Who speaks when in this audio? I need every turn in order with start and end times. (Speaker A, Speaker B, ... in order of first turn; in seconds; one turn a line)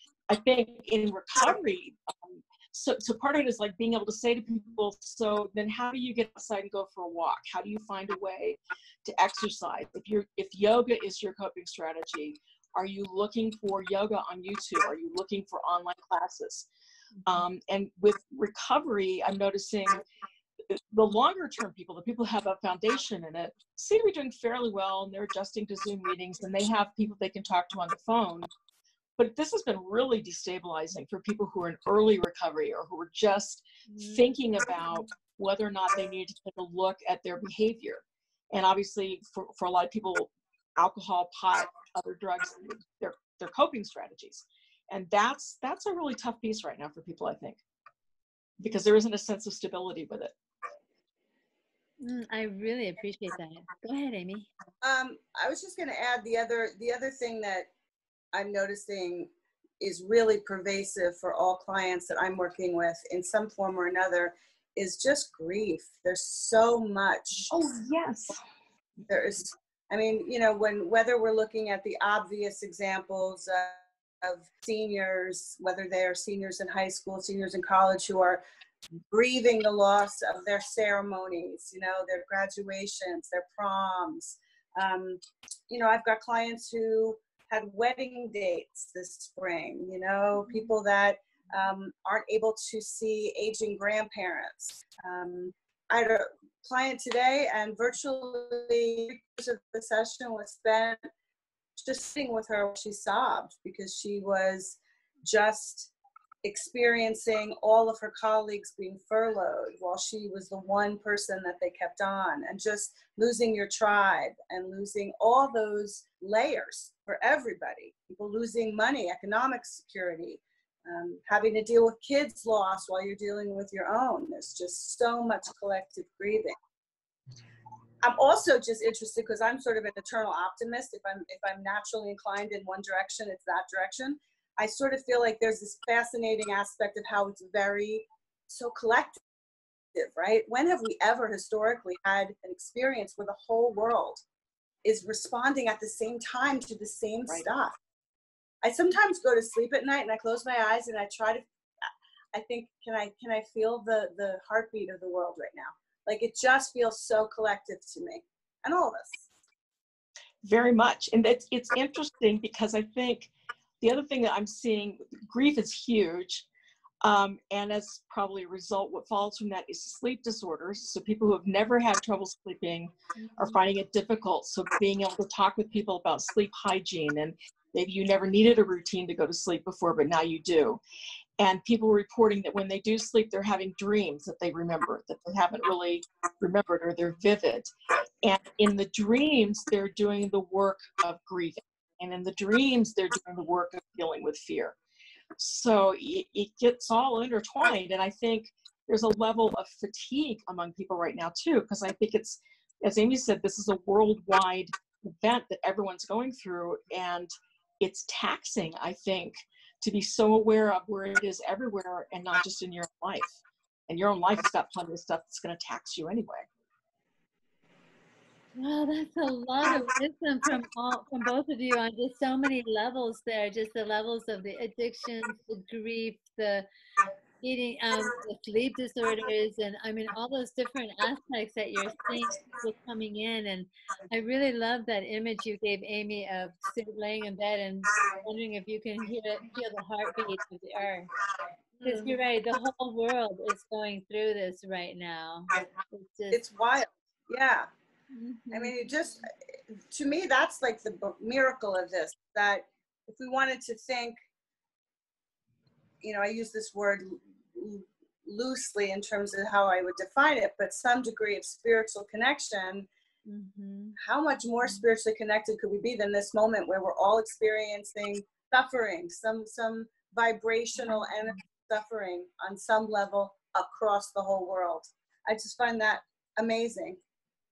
Speaker A: 0.3-16.7
Speaker A: 17.3-20.0
Speaker A: 20.7-28.5
Speaker A: 29.2-47.6
Speaker B: 33.9-34.3
Speaker A: 48.6-50.3
Speaker B: 52.0-54.5
Speaker C: 54.8-57.7
Speaker C: 58.3-67.5
Speaker A: 67.5-68.4
Speaker C: 69.1-78.4
Speaker C: 79.1-85.2
Speaker C: 85.7-101.0
Speaker B: 90.4-90.7
Speaker C: 101.8-105.9
Speaker C: 106.4-126.5
Speaker C: 128.0-139.2
Speaker C: 139.9-144.2
Speaker C: 144.8-147.8
Speaker C: 148.6-151.5
Speaker C: 152.3-159.3
Speaker A: 160.4-166.4
Speaker A: 167.0-180.8
Speaker B: 173.2-173.6
Speaker A: 181.4-187.7
Speaker A: 188.2-194.8
Speaker A: 195.4-213.4
Speaker A: 213.9-216.5
Speaker B: 218.6-226.7
Speaker B: 227.4-241.1
Speaker B: 241.8-246.4
Speaker C: 241.8-242.1
Speaker C: 246.3-247.7
Speaker B: 248.1-248.8
Speaker C: 248.5-254.2
Speaker C: 256.0-262.9
Speaker B: 263.3-264.0
Speaker C: 264.0-277.0